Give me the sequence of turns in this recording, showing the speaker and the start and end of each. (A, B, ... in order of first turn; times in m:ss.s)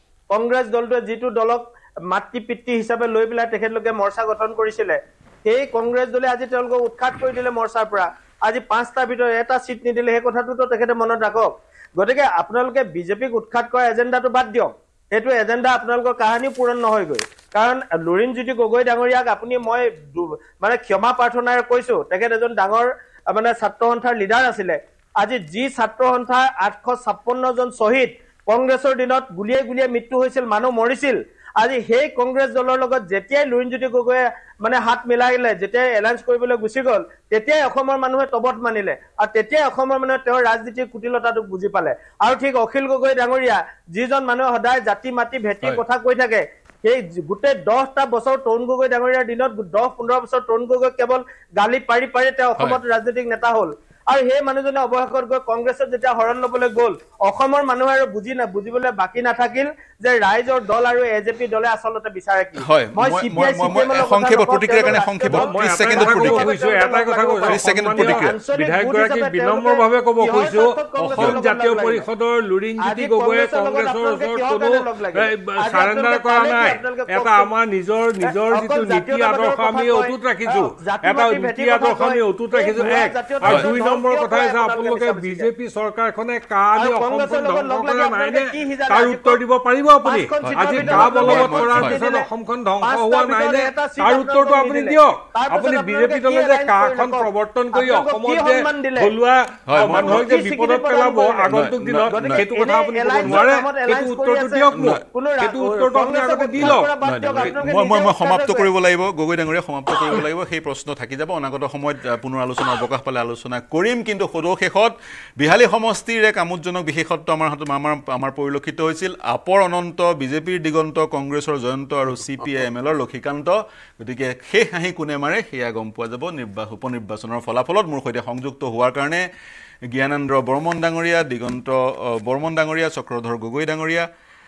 0:00.3-1:12.1 A
1:02.6-1:06.5 B
1:05.3-1:46.9 C
1:07.5-1:08.3 B
1:12.8-1:17.5 A
1:18.2-1:25.5 A
1:26.8-1:29.4 A
1:30.0-1:32.3 A
1:30.4-1:32.0 B
1:32.8-1:39.1 A
1:39.7-1:40.3 B
1:39.8-1:41.5 A
1:41.5-1:42.5 B
1:42.1-1:48.7 A
1:44.7-1:45.0 B
1:46.6-2:09.2 B
2:09.9-2:14.1 B